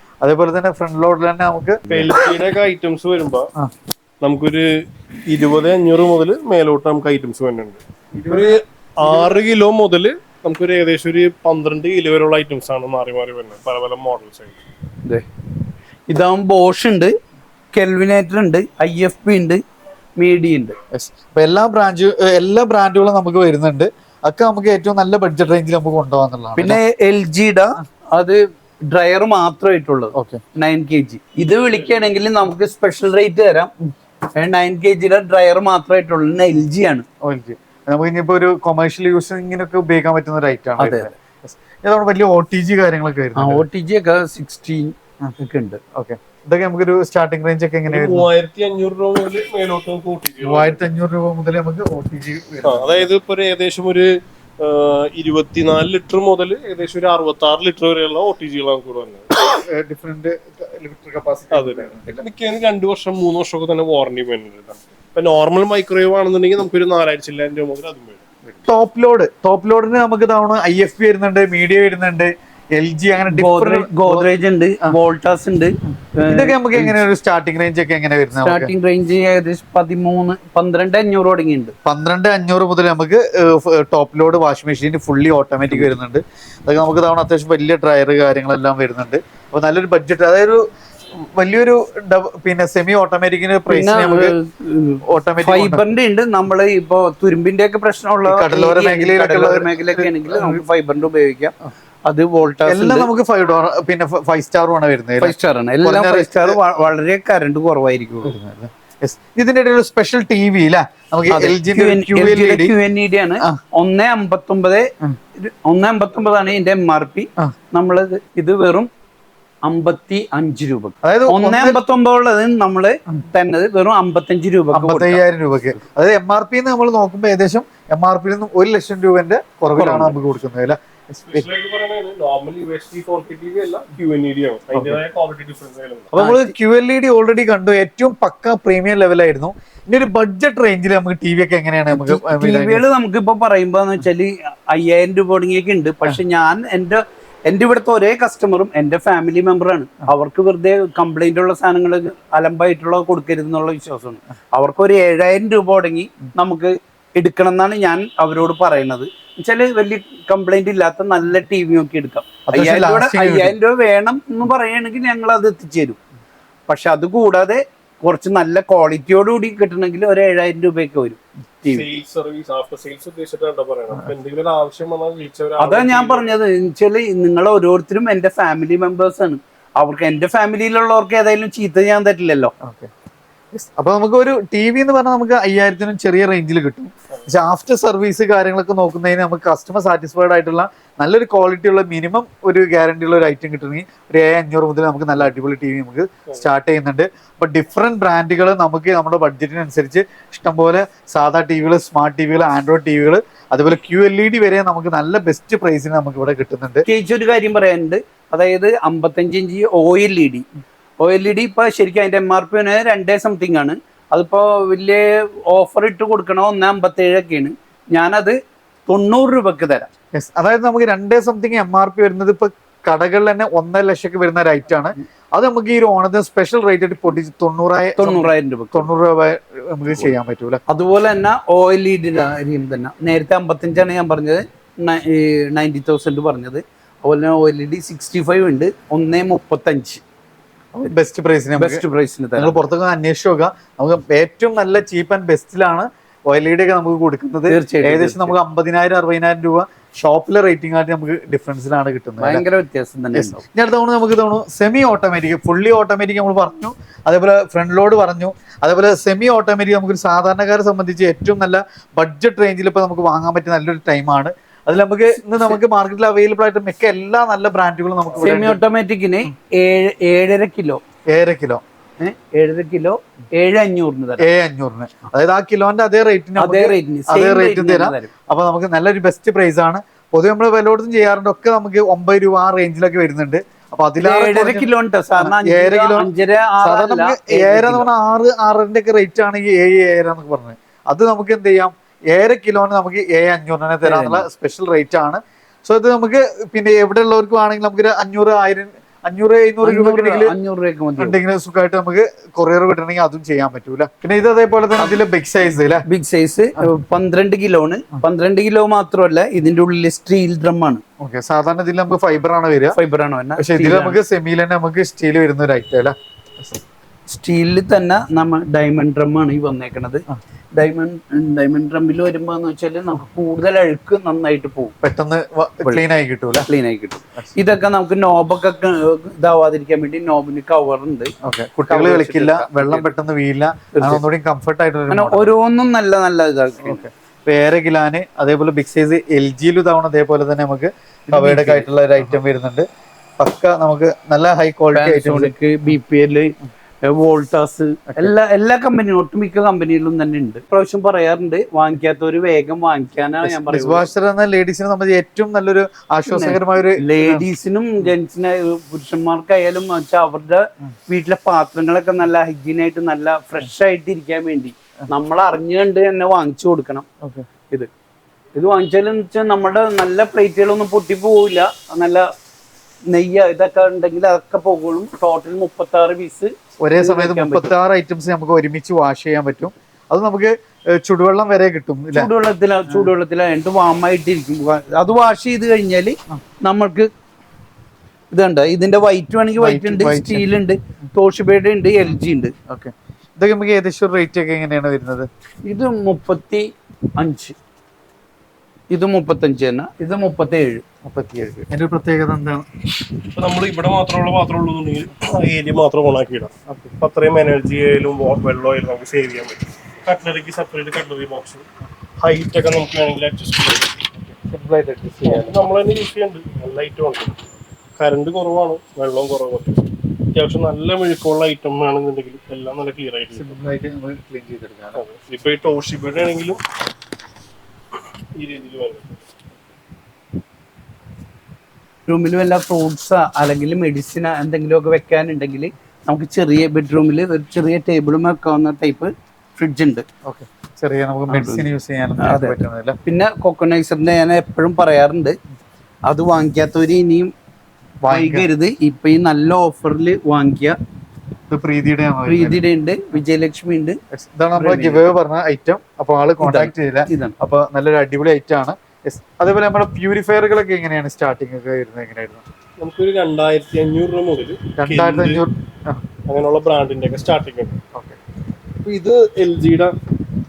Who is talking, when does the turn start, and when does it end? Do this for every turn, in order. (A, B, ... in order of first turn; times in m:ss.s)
0:00.2-0:02.1 A
0:01.9-0:03.5 B
0:04.2-0:04.7 B
0:05.3-0:14.6 B
0:08.2-0:09.4 A
0:16.1-0:17.2 C
0:17.7-0:19.6 C
0:20.2-0:20.8 C
0:20.9-0:26.8 A
0:26.6-0:37.1 C
0:30.2-0:30.4 A
0:37.2-0:43.6 A
0:40.8-0:41.1 C
0:43.4-0:45.8 C
0:45.9-0:48.3 A
0:47.9-0:50.8 B
0:50.4-0:53.1 A
0:52.6-0:54.1 B
0:54.6-0:59.4 B
0:59.4-1:02.2 A
1:01.5-1:08.6 B
1:08.7-1:14.3 A
1:13.3-1:17.0 C
1:16.3-1:18.7 A
1:18.4-1:21.8 C
1:21.9-1:34.4 A
1:33.7-1:41.5 C
1:35.0-1:35.8 A
1:38.2-1:40.6 A
1:42.0-1:43.1 C
1:42.6-1:46.6 A
1:45.2-1:48.3 C
1:48.2-1:52.7 A
1:51.3-1:58.9 C
1:59.6-2:05.2 C
2:01.0-2:01.8 A
2:04.7-2:11.5 A
2:09.8-2:10.2 C
2:11.3-2:16.1 B
2:14.7-2:15.0 A
2:16.1-2:22.8 A
2:16.2-2:16.5 C
2:21.9-2:46.0 C
2:42.5-2:43.6 A
2:46.7-2:51.9 C
2:51.7-2:56.3 B
2:55.6-3:02.5 C
3:02.6-3:02.9 A
3:03.5-3:26.8 A
3:26.8-3:30.5 C
3:31.0-3:39.9 C
3:40.1-3:50.6 A
3:48.0-3:48.9 C
3:50.7-4:00.0 C
4:00.7-4:01.8 A
4:01.6-4:02.6 C
4:02.4-4:12.4 A
4:07.5-4:08.4 C
4:12.2-4:13.4 C
4:13.1-4:28.6 A
4:28.2-4:30.8 C
4:31.1-4:31.6 A
4:32.0-4:34.3 C
4:34.2-4:46.1 A
4:36.4-4:38.1 C
4:44.0-4:47.9 C
4:46.6-5:00.4 A
4:53.8-4:54.3 C
4:59.6-5:01.2 C
5:01.0-5:05.8 A
5:05.9-5:10.8 C
5:11.0-5:12.8 A
5:12.7-5:14.0 C
5:13.4-5:16.6 A
5:17.1-5:24.8 C
5:24.8-5:26.5 A
5:26.5-5:31.1 C
5:31.2-5:35.4 A
5:31.7-5:32.9 C
5:33.7-5:34.0 C
5:34.9-5:36.8 C
5:36.6-5:42.7 A
5:41.1-5:41.7 C
5:43.2-5:45.3 A
5:44.7-5:53.8 C
5:47.9-5:48.1 A
5:53.2-5:57.3 A
5:56.1-6:06.9 C
6:07.0-6:07.3 A
6:08.4-6:12.1 C
6:12.9-6:17.5 C
6:16.6-6:22.1 A
6:21.9-6:26.9 C
6:28.1-6:32.3 C
6:29.4-6:30.3 A
6:32.5-6:35.1 A
6:35.5-6:37.4 C
6:38.7-6:40.6 C
6:40.8-6:42.5 A
6:43.1-6:51.5 B
6:46.5-6:46.8 A
6:52.0-6:53.7 B
6:54.0-6:55.4 A
6:55.0-7:03.4 B
7:03.2-7:04.8 A
7:04.8-7:06.4 B
7:08.2-7:09.0 B
7:11.9-7:19.9 C
7:20.0-7:22.8 A
7:21.1-7:21.5 C
7:22.0-7:25.2 C
7:25.9-7:27.1 C
7:27.8-7:28.3 A
7:27.9-7:30.6 C
7:31.3-7:32.4 A
7:32.1-7:33.8 C
7:33.9-7:42.2 A
7:34.4-7:34.9 C
7:36.2-7:37.2 C
7:42.6-7:45.2 B
7:44.6-7:45.8 A
7:46.1-7:47.6 B
7:48.6-7:49.8 B